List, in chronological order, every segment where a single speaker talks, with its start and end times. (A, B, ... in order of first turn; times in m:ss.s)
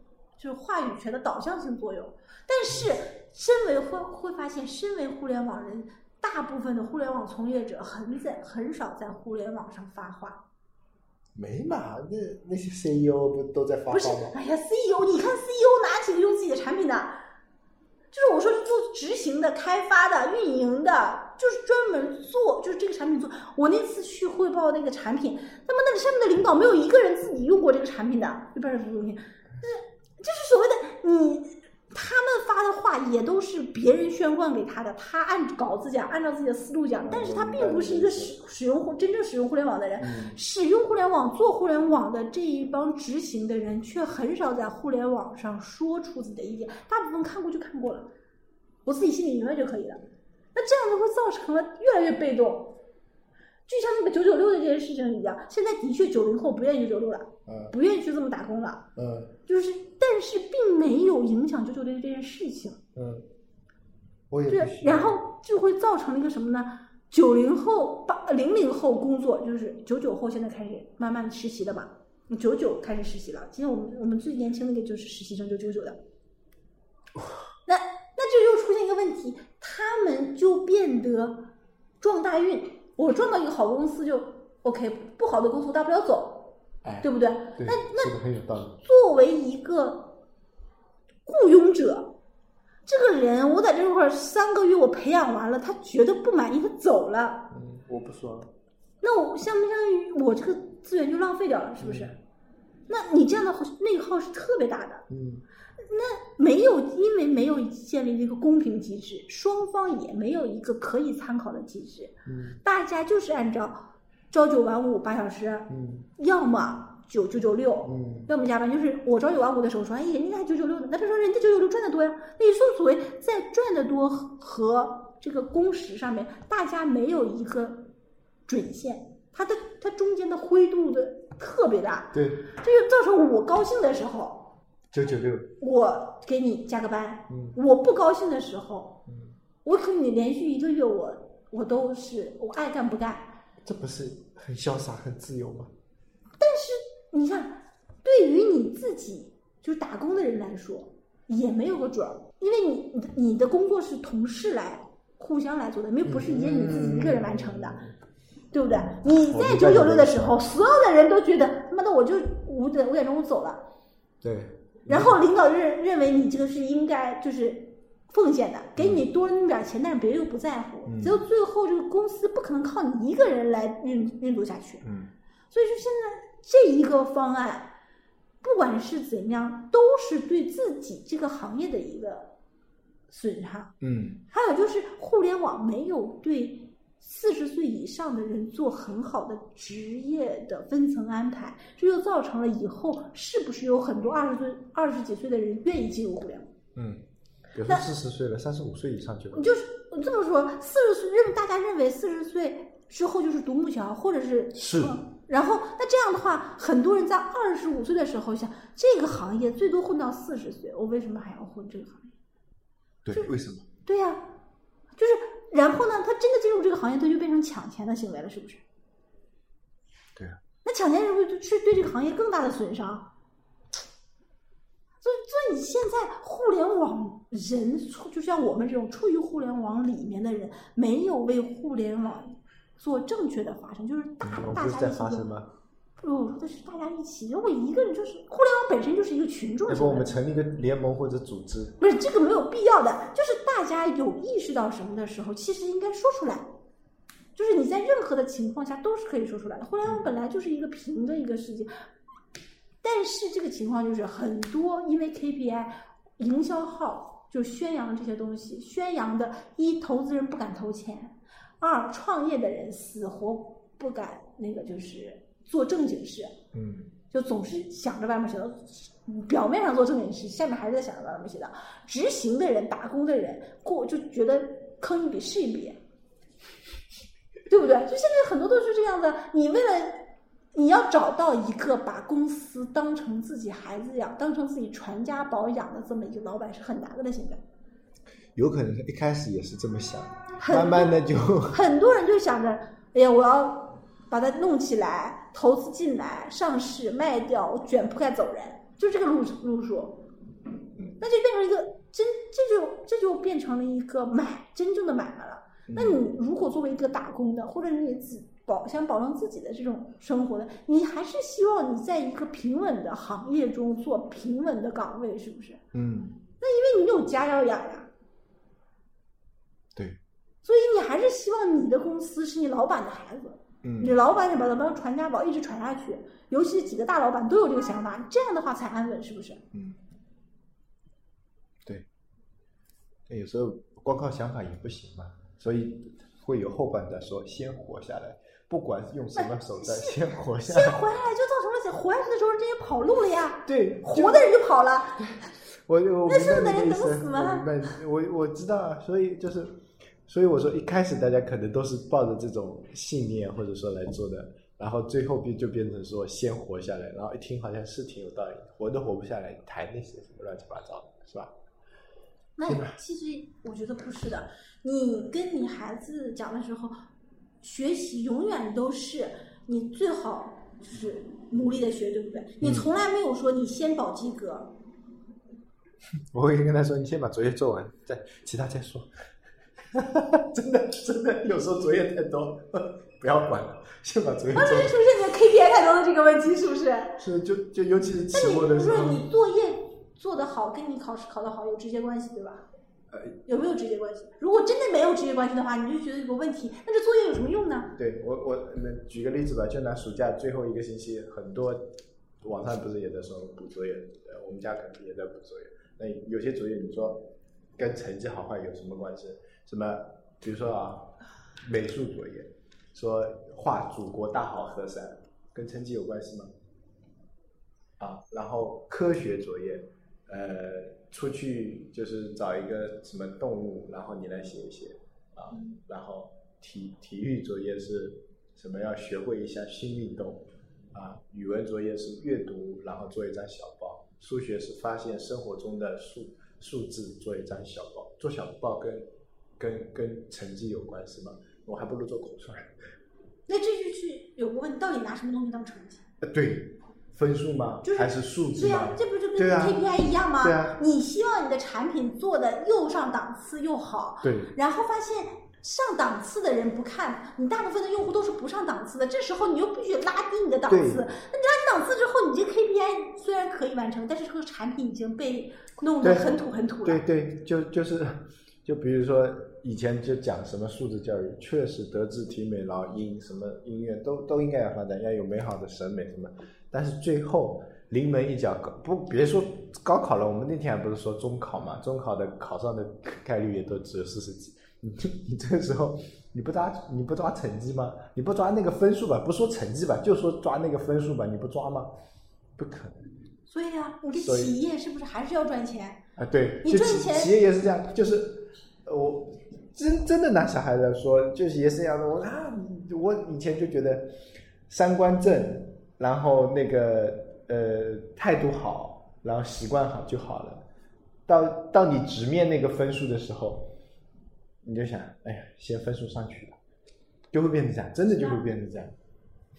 0:00.4-0:10.4 A
0:11.3-0:14.4 B
0:13.9-0:17.2 A
0:18.1-0:48.1 A
0:37.1-0:38.3 B
0:40.0-0:40.4 B
0:48.8-0:50.0 A
0:50.5-0:52.8 A
0:53.7-0:58.9 A
0:57.5-0:57.7 B
0:59.0-0:59.3 B
0:59.5-1:02.8 A
1:02.9-1:03.2 B
1:04.3-1:05.2 B
1:04.5-1:16.0 A
1:17.6-1:21.5 A
1:22.0-1:28.2 A
1:26.8-1:28.8 B
1:28.8-1:30.2 A
1:31.2-1:32.1 A
1:32.8-1:37.5 A
1:37.5-1:38.5 B
1:39.0-1:42.2 A
1:41.8-1:42.1 B
1:42.9-1:45.0 A
1:45.1-1:45.4 B
1:45.8-2:07.9 A
1:52.2-1:52.6 B
1:55.7-1:56.1 B
1:57.8-1:58.3 B
2:08.5-2:14.5 A
2:12.1-2:12.5 B
2:14.9-2:15.5 B
2:15.6-2:19.0 A
2:17.3-2:17.6 B
2:19.1-2:19.4 B
2:19.6-2:23.4 A
2:23.6-2:25.7 B
2:26.4-2:37.8 A
2:36.0-2:37.9 B
2:38.5-2:43.6 A
2:39.2-2:40.4 B
2:44.2-2:45.2 B
2:44.9-2:54.8 A
2:48.8-2:49.0 B
2:50.8-2:51.2 B
2:54.8-2:55.1 B
2:55.5-2:57.7 A
2:58.4-3:02.3 A
3:03.1-3:03.7 A
3:03.8-3:04.2 B
3:04.3-3:16.5 A
3:16.8-3:17.0 B
3:17.5-3:19.5 B
3:19.3-3:32.1 A
3:24.5-3:25.0 B
3:33.0-3:33.6 B
3:33.8-3:34.3 A
3:34.9-3:38.6 A
3:40.6-3:43.1 A
3:45.0-3:55.3 A
3:54.2-3:55.5 B
3:56.0-4:00.1 A
3:59.7-4:01.8 B
4:01.8-4:06.5 A
4:07.3-4:11.7 A
4:12.8-4:26.3 A
4:26.5-4:26.9 B
4:27.1-4:35.8 A
4:37.5-4:47.4 A
4:48.4-4:51.6 B
4:50.4-4:50.9 A
4:51.5-5:00.0 A
5:01.0-5:15.6 A
5:05.7-5:06.0 B
5:15.7-5:16.2 B
5:16.4-5:17.9 A
5:20.4-5:29.4 A
5:23.6-5:24.0 B
5:29.5-5:29.8 B
5:33.1-5:40.8 B
5:39.1-5:45.2 A
5:43.4-5:44.3 B
5:45.6-5:49.5 B
5:46.0-5:47.8 A
5:50.0-6:01.3 B
6:02.4-6:06.7 A
6:02.4-6:02.8 B
6:07.4-6:14.5 A
6:12.4-6:12.7 B
6:16.1-6:18.9 B
6:19.7-6:24.7 B
6:24.3-6:27.0 A
6:27.0-6:29.0 B
6:28.1-6:32.4 A
6:32.9-6:33.2 B
6:33.2-6:37.8 A
6:37.8-6:56.3 B
6:57.8-7:18.9 B
7:19.4-7:22.5 B
7:23.3-7:25.8 A
7:26.0-7:30.6 B
7:27.6-7:46.8 A
7:34.0-7:34.3 B
7:40.5-7:40.9 B
7:45.8-7:46.1 B
7:46.6-8:11.7 B
8:12.4-8:12.9 B
8:13.3-8:15.8 A
8:13.9-8:14.4 B
8:16.0-8:23.9 B
8:16.4-8:17.2 A
8:24.5-8:30.4 B
8:31.1-8:33.5 B
8:34.4-8:36.4 B
8:37.1-8:38.8 B